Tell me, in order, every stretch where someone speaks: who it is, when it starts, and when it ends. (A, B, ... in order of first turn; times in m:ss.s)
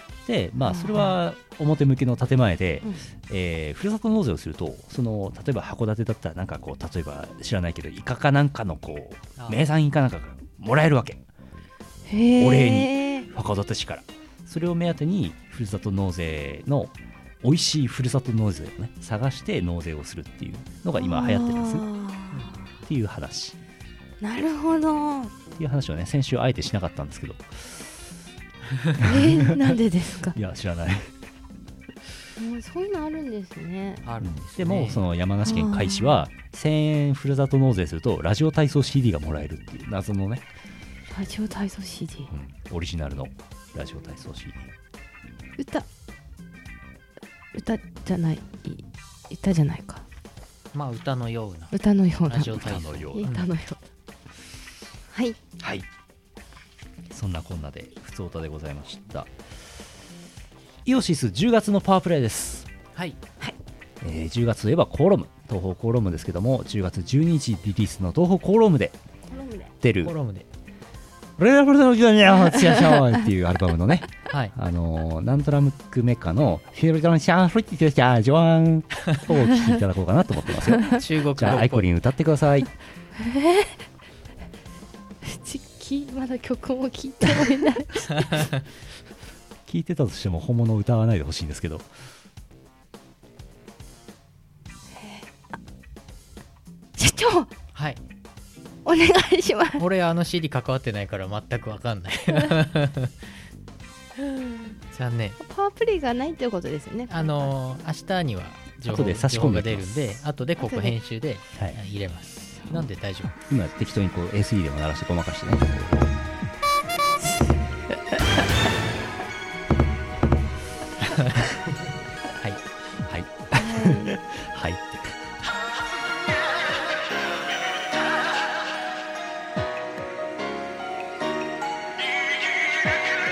0:00.3-0:11.2 A
0:00.6-0:01.1 B
0:09.4-0:09.6 C
0:12.1-0:13.3 B
0:12.4-0:21.8 A
0:21.0-0:22.6 B
0:22.8-0:23.6 A
0:24.2-0:25.3 B
0:25.6-0:27.9 A
0:29.0-0:30.4 B
0:29.0-0:31.1 A
0:32.4-0:34.0 B
0:34.0-0:35.0 C
0:34.2-0:40.4 A
0:35.4-0:36.3 B
0:41.1-0:42.3 B
0:42.3-0:44.7 A
0:45.6-0:45.9 B
0:47.5-0:50.0 B
0:50.7-0:51.8 C
0:51.7-0:52.6 B
0:52.3-0:53.5 C
0:52.5-0:53.3 A
0:53.1-0:53.8 B
0:55.1-0:55.4 B
0:55.6-0:55.9 A
0:57.1-0:59.3 A
1:00.8-1:02.7 A
1:04.0-1:09.0 A
1:09.3-1:09.7 B
1:09.8-1:10.1 A
1:10.0-1:10.5 C
1:11.4-1:22.7 A
1:20.9-1:21.9 C
1:23.2-1:23.8 B
1:25.2-1:28.3 B
1:28.2-1:28.5 C
1:29.7-1:31.9 A
1:34.9-1:35.4 B
1:37.0-1:37.5 B
1:37.8-1:38.0 C
1:38.8-1:39.8 B
1:39.8-1:43.2 C
1:44.2-1:44.7 B
1:44.9-1:45.4 C
1:45.4-1:47.5 B
1:47.1-1:53.4 C
1:48.8-1:50.2 A
1:50.6-1:51.0 B
1:53.4-1:56.2 A
2:01.1-2:01.4 C
2:03.1-2:05.4 A
2:03.6-2:04.2 B